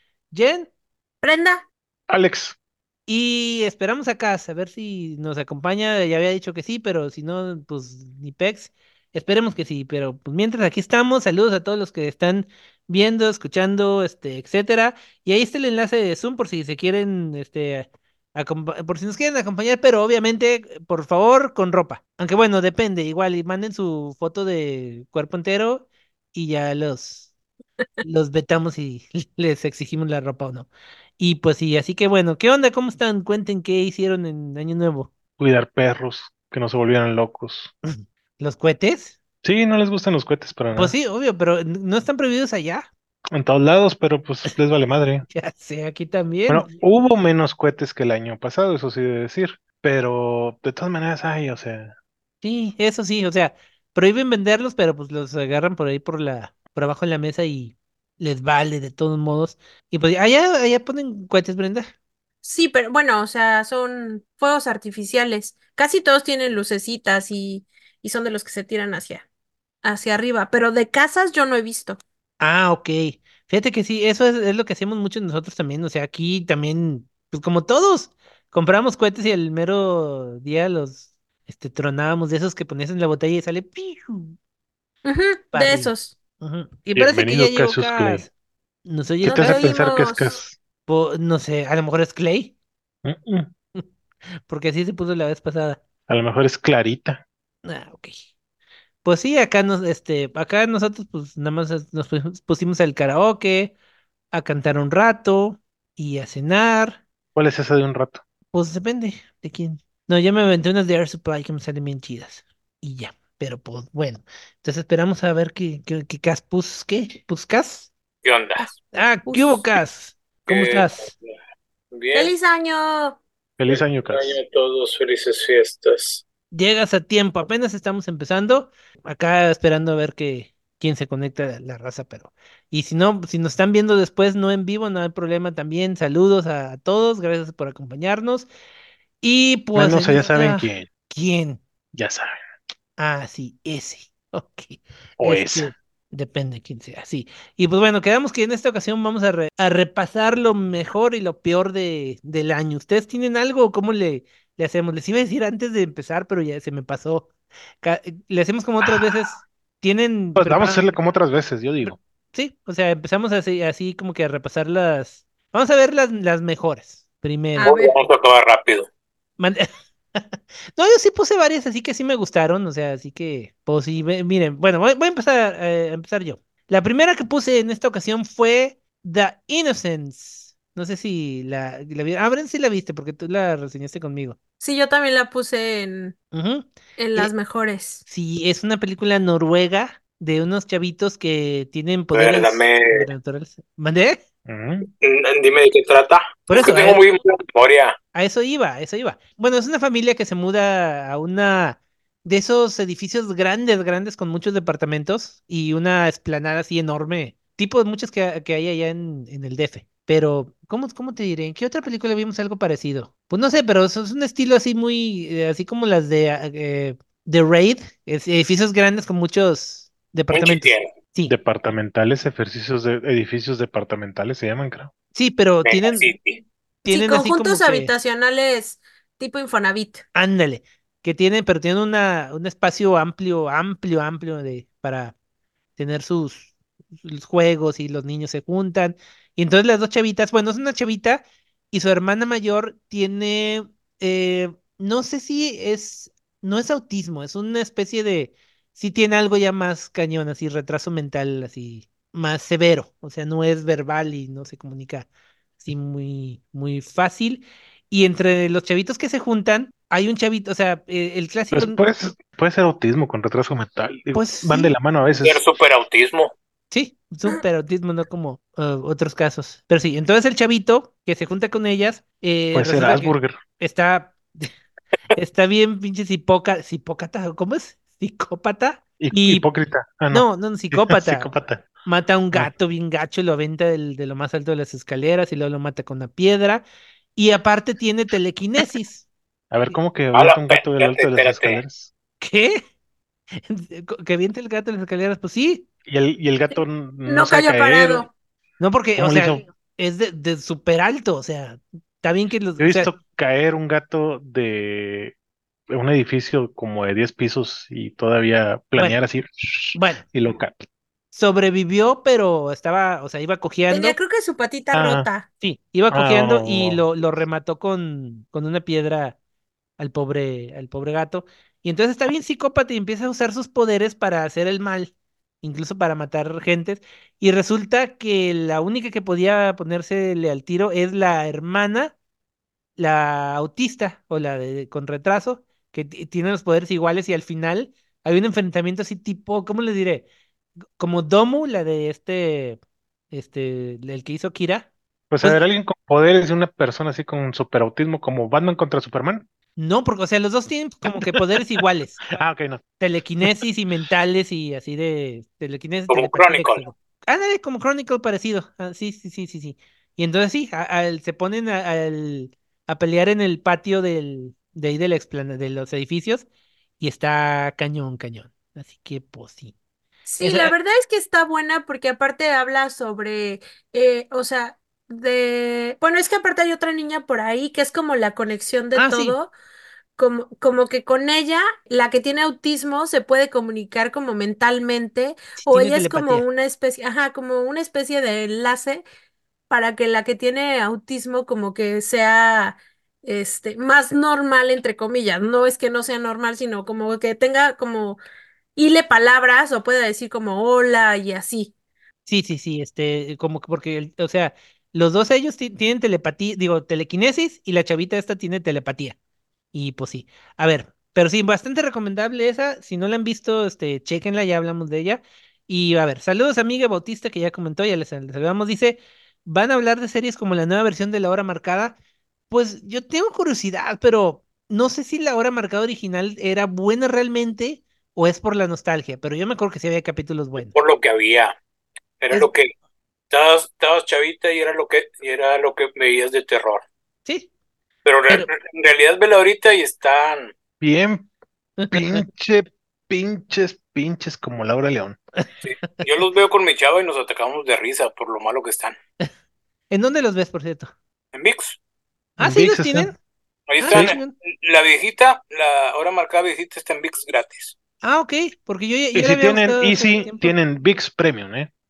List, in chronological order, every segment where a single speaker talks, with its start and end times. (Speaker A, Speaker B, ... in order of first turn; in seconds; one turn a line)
Speaker A: 0.3-0.7
Speaker B: 1.2-1.6
Speaker C: 2.1-2.6
Speaker A: 3.1-27.3
Speaker A: 28.0-35.1
Speaker C: 35.4-37.7
Speaker A: 37.8-39.2
Speaker C: 39.4-41.0
Speaker A: 40.7-42.9
Speaker C: 43.3-45.3
Speaker A: 45.3-46.7
Speaker C: 46.5-51.9
Speaker A: 52.4-61.9
Speaker B: 62.4-69.2
Speaker B: 69.8-72.0
Speaker A: 72.4-84.4
Speaker B: 85.0-86.2
Speaker A: 85.5-88.3
Speaker C: 86.9-88.3
Speaker A: 88.8-89.7
Speaker B: 89.2-90.4
Speaker C: 89.2-90.6
Speaker A: 90.9-92.5
Speaker C: 93.0-93.5
Speaker A: 94.5-95.8
Speaker C: 96.1-97.2
Speaker A: 97.6-98.2
Speaker A: 99.0-103.8
Speaker A: 104.3-107.0
Speaker C: 107.3-108.2
Speaker A: 108.5-117.9
Speaker D: 118.2-118.8
Speaker A: 118.9-121.1
Speaker B: 119.3-119.7
Speaker D: 120.5-121.4
Speaker D: 121.9-122.3
Speaker B: 122.1-123.2
Speaker C: 123.6-124.4
Speaker D: 123.7-126.2
Speaker A: 126.5-138.5
Speaker A: 139.2-141.6
Speaker C: 139.8-140.9
Speaker C: 141.9-142.4
Speaker A: 143.0-157.3
Speaker C: 145.2-145.7
Speaker A: 157.8-161.0
Speaker C: 160.4-162.0
Speaker A: 161.8-167.8
Speaker B: 167.6-168.0
Speaker D: 167.6-168.9
Speaker A: 169.4-184.4
Speaker B: 184.6-186.2
Speaker A: 186.3-187.3
Speaker B: 187.0-188.0
Speaker A: 188.1-194.2
Speaker D: 192.1-193.1
Speaker C: 194.5-194.9
Speaker D: 195.0-198.0
Speaker A: 196.5-197.0
Speaker A: 198.1-221.3
Speaker D: 220.3-220.9
Speaker C: 221.3-224.9
Speaker A: 225.2-226.1
Speaker D: 225.7-226.4
Speaker A: 226.8-227.9
Speaker B: 226.9-230.0
Speaker A: 230.2-235.1
Speaker A: 235.8-255.1
Speaker A: 255.6-261.8
Speaker C: 261.5-265.4
Speaker A: 264.1-264.7
Speaker D: 265.2-266.3
Speaker A: 266.7-274.5
Speaker C: 272.5-273.4
Speaker A: 275.1-279.5
Speaker C: 279.0-281.7
Speaker A: 280.1-281.3
Speaker A: 281.8-286.6
Speaker A: 287.2-289.1
Speaker C: 289.5-291.9
Speaker D: 290.1-291.6
Speaker A: 292.2-292.6
Speaker A: 293.4-295.7
Speaker C: 295.9-298.1
Speaker B: 297.1-298.1
Speaker A: 298.6-302.9
Speaker C: 299.0-299.4
Speaker C: 302.6-305.1
Speaker C: 305.7-310.6
Speaker A: 309.8-310.0
Speaker A: 311.1-314.0
Speaker B: 313.7-315.3
Speaker C: 314.7-315.1
Speaker A: 315.4-319.2
Speaker C: 315.9-316.9
Speaker A: 319.8-331.9
Speaker A: 332.8-340.1
Speaker A: 340.8-342.6
Speaker A: 343.1-344.7
Speaker C: 345.1-349.2
Speaker A: 349.6-352.0
Speaker C: 352.1-352.6
Speaker A: 352.8-366.3
Speaker D: 355.9-356.6
Speaker A: 366.8-369.5
Speaker B: 370.1-379.3
Speaker A: 370.2-370.5
Speaker A: 378.8-379.2
Speaker B: 380.0-388.8
Speaker A: 385.4-386.3
Speaker B: 389.5-398.0
Speaker B: 398.6-401.5
Speaker A: 402.1-409.0
Speaker A: 409.5-421.8
Speaker A: 422.3-430.6
Speaker D: 430.4-431.4
Speaker D: 432.0-432.5
Speaker D: 433.1-436.6
Speaker A: 437.1-437.3
Speaker D: 437.9-440.3
Speaker C: 440.6-441.1
Speaker A: 441.6-442.1
Speaker C: 441.7-445.0
Speaker D: 445.4-448.8
Speaker A: 449.7-450.7
Speaker D: 451.1-451.6
Speaker A: 452.2-453.0
Speaker C: 452.2-452.9
Speaker D: 453.5-457.6
Speaker A: 453.6-454.1
Speaker C: 453.7-454.0
Speaker A: 457.8-460.4
Speaker C: 458.9-461.5